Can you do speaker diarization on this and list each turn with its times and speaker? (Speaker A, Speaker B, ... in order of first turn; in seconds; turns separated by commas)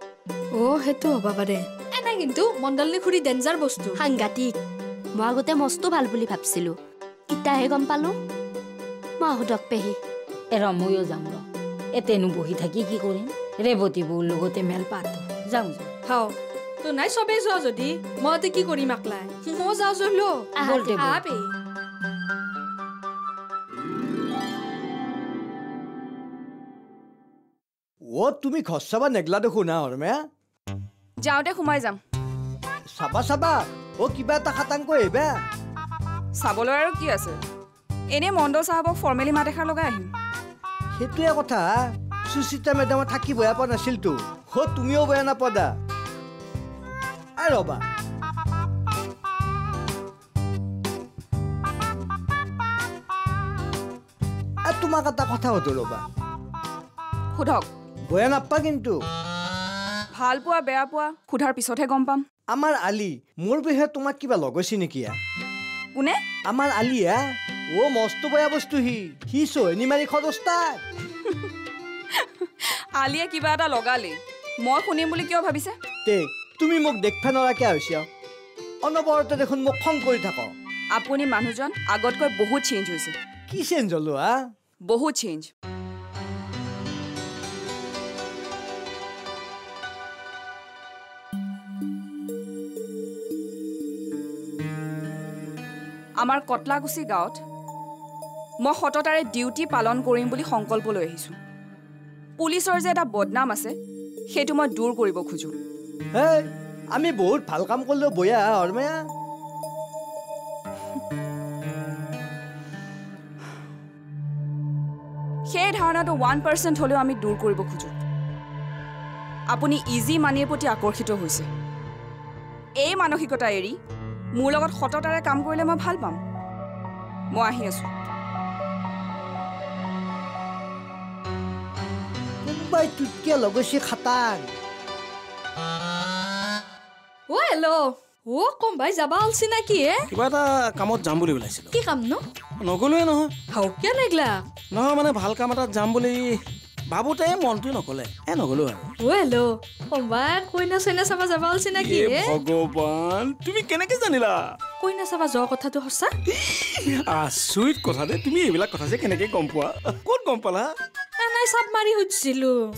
Speaker A: 0.6-4.0, Speaker B: 4.0-4.5, Speaker B: 5.2-6.8, Speaker B: 7.3-8.2, Speaker B: 9.2-10.0, Speaker C: 10.5-11.4, Speaker C: 12.0-15.9, Speaker A: 16.8-21.5, Speaker B: 20.6-21.1, Speaker C: 20.7-21.2, Speaker D: 28.1-30.2, Speaker E: 31.2-32.0, Speaker D: 33.0-35.3, Speaker E: 36.4-37.4, Speaker E: 38.1-40.1, Speaker D: 41.0-41.8, Speaker D: 42.3-45.7, Speaker D: 47.4-47.8, Speaker D: 54.7-56.0, Speaker E: 57.3-57.7, Speaker D: 58.1-59.0, Speaker E: 60.1-62.2, Speaker D: 62.5-65.2, Speaker E: 66.0-66.2, Speaker D: 66.5-67.2, Speaker D: 67.7-70.8, Speaker E: 72.1-75.8, Speaker D: 76.1-78.1, Speaker D: 78.8-80.5, Speaker E: 80.9-83.2, Speaker D: 83.5-84.3, Speaker E: 84.8-85.5, Speaker E: 96.2-97.4, Speaker E: 98.6-101.4, Speaker E: 102.4-103.8, Speaker E: 104.3-105.5, Speaker D: 106.1-109.0, Speaker E: 115.5-117.9, Speaker E: 119.5-121.5, Speaker E: 122.8-123.8, Speaker E: 124.3-126.2, Speaker E: 127.3-127.9, Speaker D: 132.4-134.4, Speaker A: 137.3-140.1, Speaker F: 140.1-141.7, Speaker A: 141.7-142.2, Speaker F: 142.6-143.3, Speaker A: 143.5-144.4, Speaker F: 144.7-148.9, Speaker A: 149.0-152.4, Speaker F: 151.8-154.6, Speaker A: 154.8-156.1, Speaker F: 156.5-160.7, Speaker A: 161.2-162.7